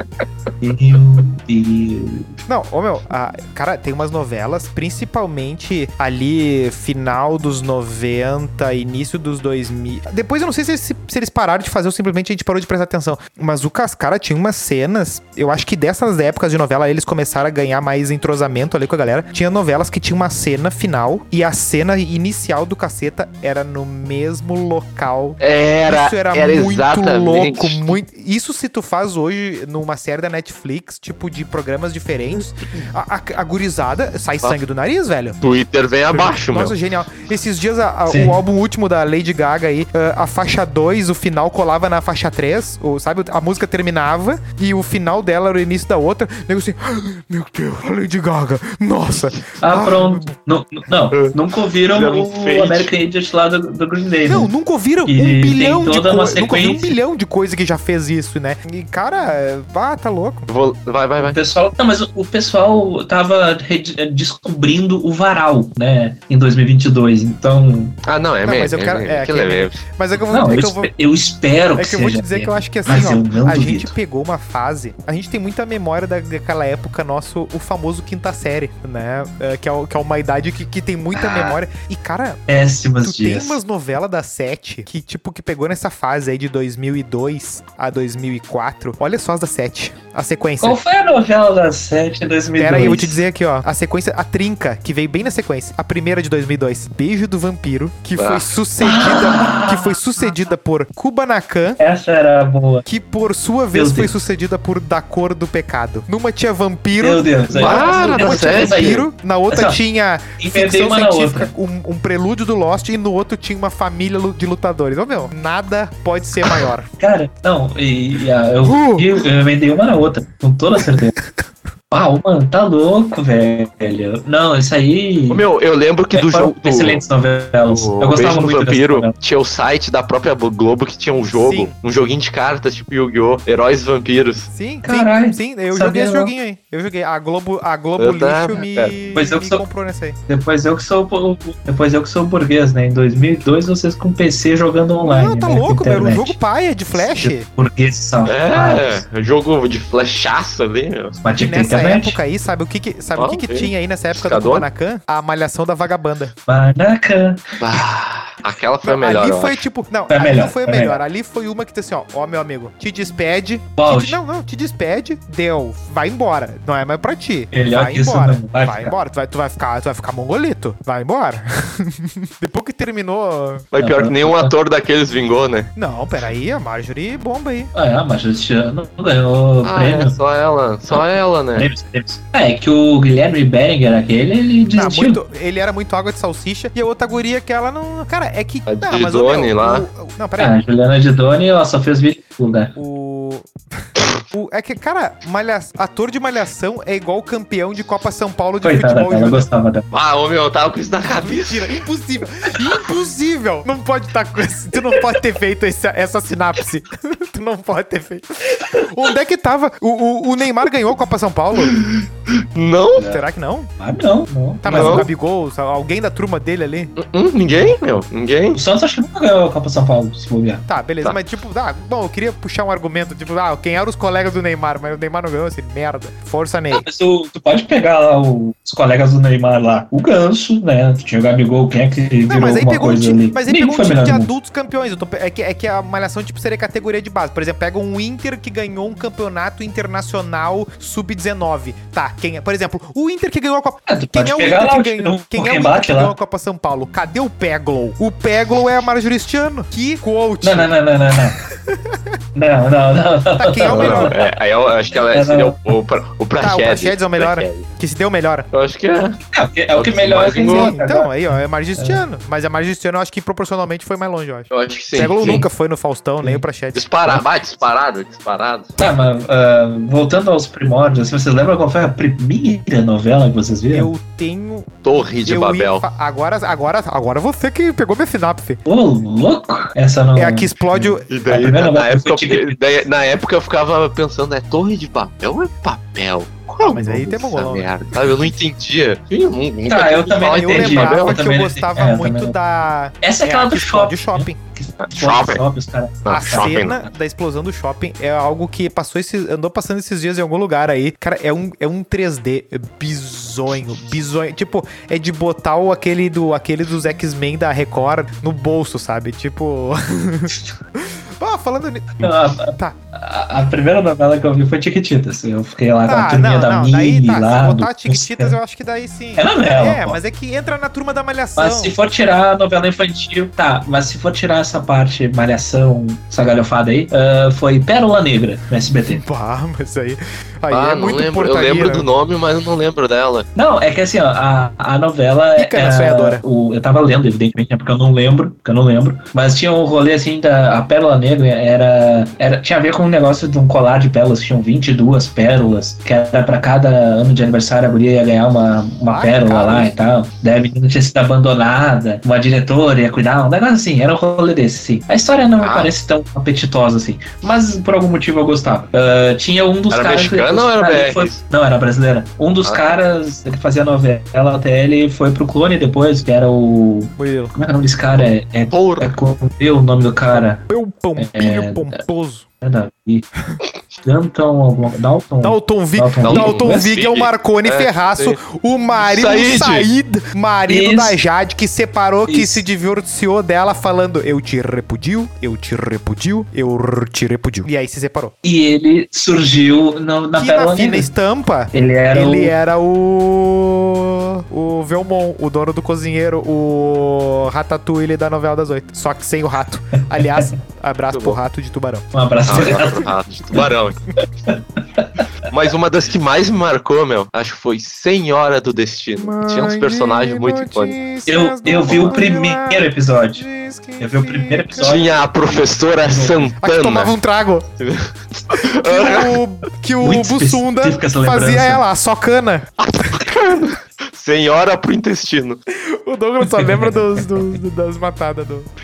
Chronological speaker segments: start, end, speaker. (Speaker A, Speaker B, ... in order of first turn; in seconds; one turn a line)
Speaker A: 0.6-2.3
Speaker B: 2.5-35.4
Speaker C: 25.4-27.9
Speaker C: 35.4-36.7
Speaker B: 36.1-50.3
Speaker A: 38.1-38.4
Speaker A: 49.6-54.5
Speaker C: 51.1-52.9
Speaker B: 54.2-60.5
Speaker A: 55.0-57.0
Speaker C: 60.5-61.4
Speaker A: 61.2-68.0
Speaker C: 68.0-69.8
Speaker B: 68.4-70.9
Speaker A: 70.3-73.9
Speaker B: 71.8-82.4
Speaker A: 81.1-81.6
Speaker A: 82.5-83.6
Speaker B: 83.0-90.8
Speaker A: 90.6-93.2
Speaker B: 92.6-101.8
Speaker C: 98.2-98.5
Speaker A: 98.8-100.0
Speaker A: 101.8-102.8
Speaker B: 102.8-116.9
Speaker A: 103.7-104.1
Speaker A: 107.0-109.8
Speaker C: 107.5-109.0
Speaker A: 110.4-111.5
Speaker A: 117.0-121.1
Speaker B: 118.6-119.2
Speaker A: 121.9-125.4
Speaker C: 125.3-127.0
Speaker A: 126.1-129.1
Speaker C: 127.6-134.5
Speaker B: 131.3-131.7
Speaker B: 134.5-140.2
Speaker A: 134.8-136.3
Speaker C: 138.0-138.9
Speaker A: 139.1-139.6
Speaker A: 140.3-146.4
Speaker B: 145.0-147.4
Speaker A: 146.9-149.0
Speaker C: 148.2-151.2
Speaker A: 151.2-152.2
Speaker B: 151.3-156.3
Speaker C: 153.2-154.7
Speaker A: 156.4-157.6
Speaker C: 157.6-159.6
Speaker B: 158.8-173.7
Speaker A: 160.1-161.0
Speaker A: 163.8-164.2
Speaker A: 167.5-168.9
Speaker C: 173.7-175.7
Speaker A: 173.8-174.5
Speaker B: 175.8-177.7
Speaker A: 177.7-180.2
Speaker C: 179.6-181.7
Speaker A: 180.9-185.2
Speaker B: 184.7-190.6
Speaker C: 188.7-189.9
Speaker A: 190.4-192.8
Speaker B: 192.8-199.5
Speaker A: 198.6-199.9
Speaker C: 199.9-201.8
Speaker B: 201.0-211.9
Speaker A: 208.5-208.9
Speaker C: 211.5-213.0
Speaker A: 212.9-213.2
Speaker B: 213.0-213.7
Speaker A: 213.8-215.1
Speaker B: 214.6-216.9
Speaker C: 214.7-215.1
Speaker C: 216.9-218.6
Speaker A: 217.5-217.8
Speaker A: 218.5-220.6
Speaker B: 220.7-226.8
Speaker A: 226.7-234.3
Speaker B: 232.3-250.7
Speaker A: 243.9-246.1
Speaker A: 250.4-251.4
Speaker B: 251.3-252.1
Speaker A: 252.4-254.2
Speaker B: 253.4-254.3
Speaker C: 253.7-257.7
Speaker A: 255.1-255.7
Speaker B: 256.4-258.4
Speaker C: 258.5-259.2
Speaker A: 259.3-262.0
Speaker C: 259.7-260.7
Speaker B: 260.4-267.2
Speaker C: 264.5-265.4
Speaker C: 266.7-268.7
Speaker A: 268.8-273.9
Speaker B: 273.7-278.6
Speaker C: 274.8-275.8
Speaker A: 278.6-282.6
Speaker B: 280.1-281.1
Speaker C: 281.1-291.2
Speaker B: 286.6-288.2
Speaker A: 289.7-292.4
Speaker B: 290.3-294.4
Speaker A: 293.0-296.8
Speaker C: 294.8-295.4
Speaker C: 296.0-296.8
Speaker B: 296.1-312.8
Speaker A: 312.0-318.4
Speaker B: 315.9-321.7
Speaker A: 319.1-320.0
Speaker A: 321.4-329.0
Speaker B: 328.9-331.9
Speaker C: 330.5-333.3
Speaker A: 333.4-370.4
Speaker B: 335.4-336.2
Speaker B: 348.9-349.7
Speaker C: 355.4-355.7
Speaker C: 359.7-361.2
Speaker B: 367.0-367.4
Speaker C: 368.0-368.9
Speaker B: 370.2-372.2
Speaker A: 370.9-371.8
Speaker A: 372.4-373.1
Speaker A: 373.8-376.7
Speaker B: 375.2-388.1
Speaker C: 376.0-378.2
Speaker C: 378.8-379.7
Speaker A: 380.5-380.9
Speaker A: 382.1-382.4
Speaker A: 388.2-390.9
Speaker B: 390.1-401.9
Speaker A: 391.5-392.3
Speaker A: 399.9-400.4
Speaker A: 401.9-402.9
Speaker C: 402.3-403.8
Speaker B: 402.4-402.9
Speaker A: 404.3-405.0
Speaker C: 405.3-410.8
Speaker B: 409.0-414.8
Speaker A: 411.1-413.2
Speaker A: 413.8-415.0
Speaker C: 414.6-416.9
Speaker A: 415.8-416.3
Speaker B: 416.4-417.5
Speaker C: 417.6-419.2
Speaker B: 418.3-422.5
Speaker A: 419.8-421.6
Speaker C: 422.6-425.4
Speaker B: 425.5-428.5
Speaker A: 426.3-426.7